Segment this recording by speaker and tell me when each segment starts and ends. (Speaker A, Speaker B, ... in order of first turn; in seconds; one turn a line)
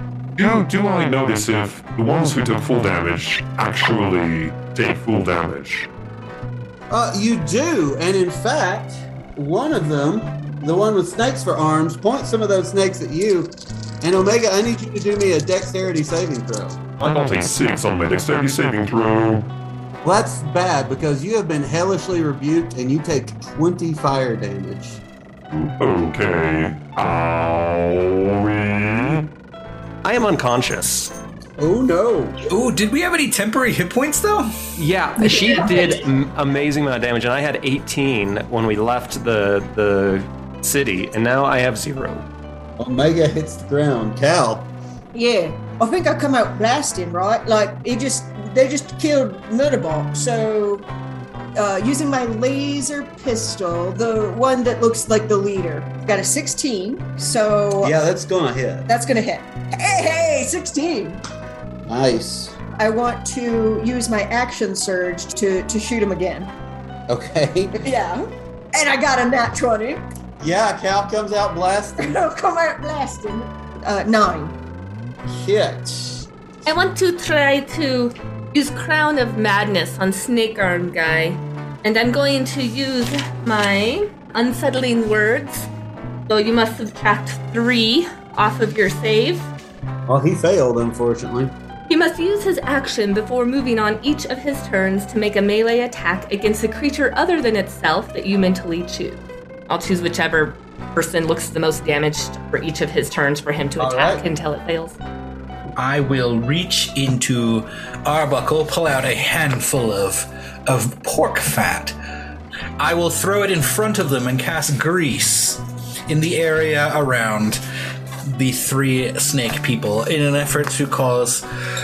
Speaker A: 0.4-5.9
Speaker B: 6.9-16.8
Speaker A: 17.0-19.5
Speaker B: 20.0-25.0
Speaker A: 25.5-29.3
Speaker C: 30.0-31.1
Speaker B: 31.6-32.4
Speaker D: 32.5-34.5
Speaker C: 34.8-42.3
Speaker B: 42.8-44.7
Speaker E: 45.1-50.9
Speaker E: 51.5-57.9
Speaker B: 57.8-58.9
Speaker E: 58.9-61.2
Speaker B: 61.9-62.6
Speaker E: 62.8-66.5
Speaker B: 67.1-67.8
Speaker E: 67.8-70.0
Speaker B: 70.4-72.2
Speaker E: 72.0-74.6
Speaker B: 75.3-76.3
Speaker F: 76.7-85.7
Speaker F: 86.3-89.5
Speaker B: 90.1-91.5
Speaker F: 91.9-105.0
Speaker B: 103.8-104.3
Speaker D: 105.8-112.0
Speaker D: 112.8-117.6
Speaker D: 118.2-121.5